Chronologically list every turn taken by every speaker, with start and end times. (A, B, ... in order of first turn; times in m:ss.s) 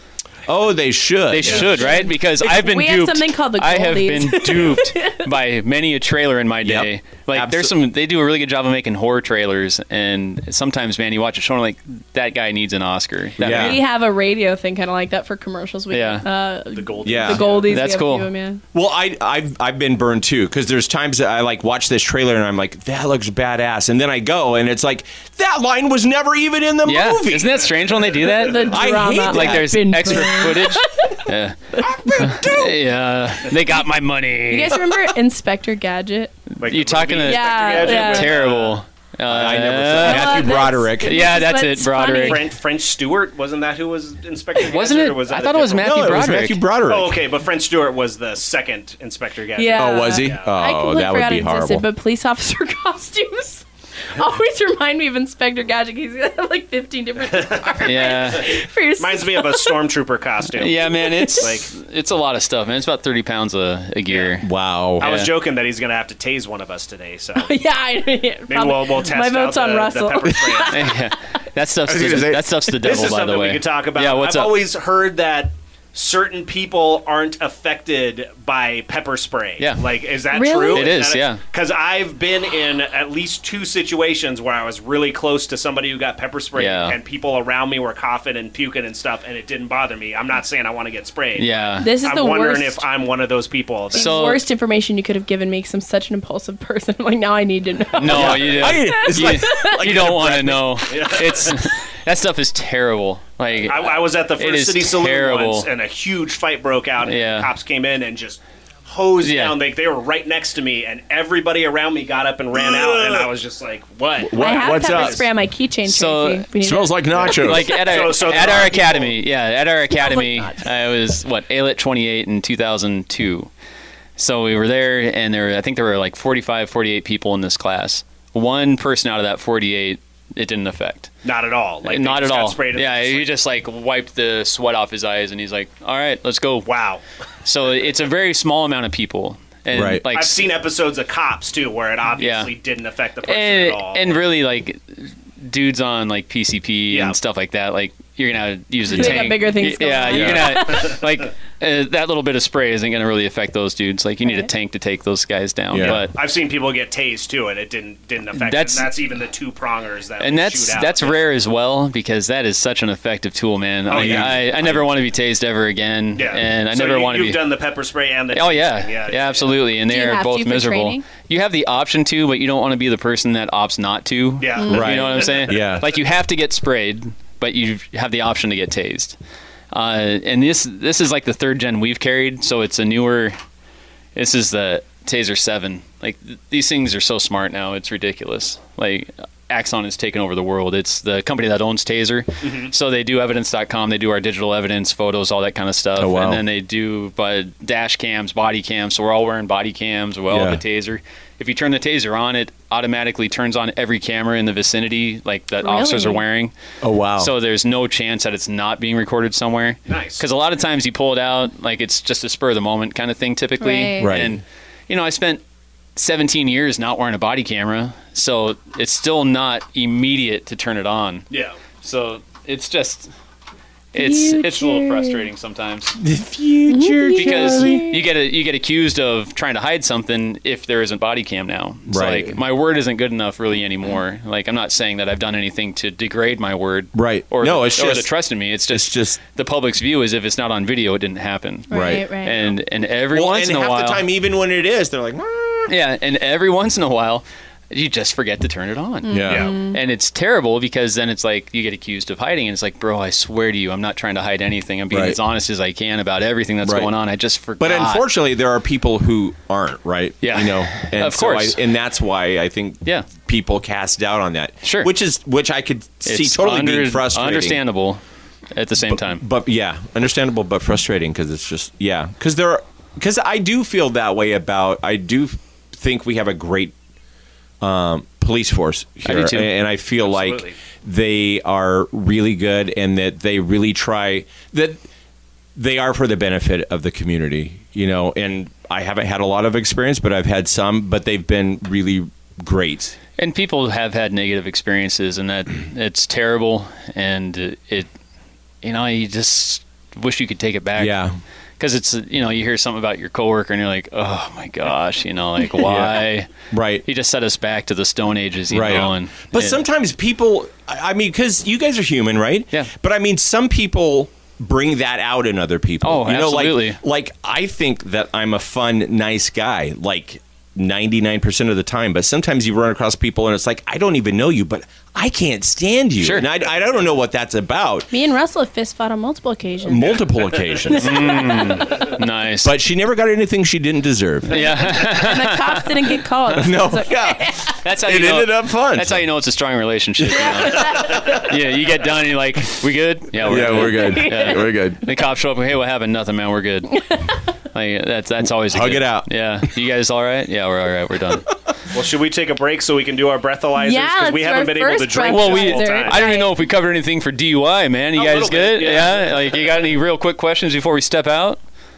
0:00.5-0:01.9 A
0:01.3-0:13.8 B
0:01.4-0:02.0 C
0:01.8-0:05.2 D
0:06.6-0:07.7 A
0:13.4-0:13.8 A
0:13.4-0:18.6 D
0:15.9-0:16.2 B
0:16.7-0:17.8 C
0:17.0-0:17.5 A
0:17.5-0:18.3 B
0:18.7-0:27.7 A
0:26.8-0:31.6 B
0:28.4-0:32.3 D
0:28.6-0:30.4 A
0:31.8-0:32.8 A
0:32.2-0:34.8 B
0:34.5-0:36.3 D
0:36.6-0:38.8 C
0:36.6-0:42.5 B
0:37.2-0:38.3 D
0:39.3-0:41.2 A
0:40.0-0:42.5 D
0:42.2-0:50.5 C
0:44.6-0:46.6 B
0:45.8-0:47.2 A
0:49.6-0:59.8 D
0:49.7-0:51.8 A
0:57.2-0:58.1 C
0:57.8-0:58.5 B
0:59.0-1:01.7 C
1:00.5-1:04.4 B
1:01.0-1:01.5 D
1:04.1-1:04.4 C
1:04.4-1:05.2 A
1:05.0-1:07.5 C
1:05.0-1:05.3 B
1:07.4-1:11.2 D
1:08.5-1:10.9 C
1:10.7-1:14.6 B
1:11.8-1:12.5 A
1:12.8-1:34.1 C
1:19.6-1:19.8 B
1:20.3-1:20.9 D
1:20.7-1:21.4 B
1:26.5-1:27.0 B
1:31.4-1:31.9 B
1:31.8-1:32.8 D
1:33.9-1:34.4 B
1:33.9-1:39.8 D
1:37.9-1:45.7 B
1:38.1-1:40.8 A
1:40.9-1:41.7 C
1:43.6-1:55.2 C
1:47.0-1:47.5 B
1:49.2-1:49.6 B
1:52.5-1:53.3 A
1:54.2-1:55.2 A
1:54.3-1:57.9 D
1:55.9-1:56.5 B
1:56.6-1:57.7 A
1:57.2-1:59.1 C
1:57.2-2:03.5 B
1:59.9-2:00.7 D
2:04.2-2:11.1 B
2:11.2-2:13.3 C
2:11.8-2:16.7 B
2:16.6-2:17.0 C
2:17.4-2:20.4 B
2:19.7-2:20.0 A
2:20.1-2:24.2 C
2:22.2-2:22.5 B
2:23.2-2:36.1 B
2:26.9-2:27.2 C
2:28.9-2:29.3 A
2:28.9-2:31.0 D
2:30.1-2:30.6 A
2:34.2-2:34.5 D
2:35.7-2:36.0 A
2:35.8-2:41.3 C
2:38.3-2:38.9 B
2:40.2-2:47.4 B
2:43.9-2:44.8 C
2:43.9-2:44.4 A
2:46.2-2:49.6 C
2:48.3-2:59.2 B
2:49.9-2:51.0 D
2:54.4-2:55.7 C
2:54.6-2:55.0 D
2:54.7-2:55.8 A
2:59.7-3:03.4 B
3:04.1-3:26.5 B
3:12.4-3:12.7 C
3:16.0-3:16.4 A
3:20.3-3:20.6 A
3:25.6-3:26.2 D
3:26.8-3:27.3 A
3:27.2-3:35.4 B
3:29.9-3:30.2 C
3:33.6-3:34.2 D
3:34.0-3:34.4 A
3:36.0-3:41.3 B
3:41.3-3:41.6 C
3:41.8-3:43.1 B
3:43.9-3:46.0 B
3:43.9-3:45.2 D
3:46.0-3:47.8 A
3:46.7-3:48.0 D
3:47.2-4:04.0 B
3:51.9-3:52.4 A
3:56.9-3:58.1 A
3:58.7-3:59.2 A
4:01.7-4:02.4 D
4:01.7-4:02.0 A
4:03.1-4:05.7 A
4:05.7-4:18.0 B
4:09.0-4:09.8 D
4:09.1-4:09.5 A
4:14.9-4:15.2 A
4:16.6-4:16.9 A
4:17.6-4:27.6 A
4:20.2-4:21.6 B
4:24.6-4:24.9 B
4:26.0-4:28.0 B
4:28.5-4:29.2 B
4:28.8-4:36.7 A
4:37.6-4:44.8 A
4:39.0-4:39.5 B
4:40.0-4:40.6 C
4:45.6-4:53.0 A
4:53.2-4:57.9 B
4:58.6-5:01.0 B
5:00.8-5:01.2 A
5:01.6-5:06.3 B
5:05.6-5:06.8 A
5:06.8-5:09.6 B
5:08.5-5:27.9 A
5:15.8-5:16.8 B
5:26.0-5:26.3 B
5:27.9-5:30.0 D
5:29.6-5:31.4 A
5:30.0-5:30.4 C
5:30.7-5:32.0 D
5:30.8-5:32.5 B
5:32.4-5:34.5 A
5:34.3-5:35.7 B
5:34.3-5:37.6 D
5:36.3-5:39.0 A
5:37.6-5:51.3 B
5:40.1-5:41.2 D
5:43.2-5:44.8 A
5:43.6-5:44.5 D
5:48.4-5:49.1 A
5:51.7-5:56.0 C
5:53.6-5:56.4 D
5:55.1-6:01.4 B
5:58.0-5:59.4 C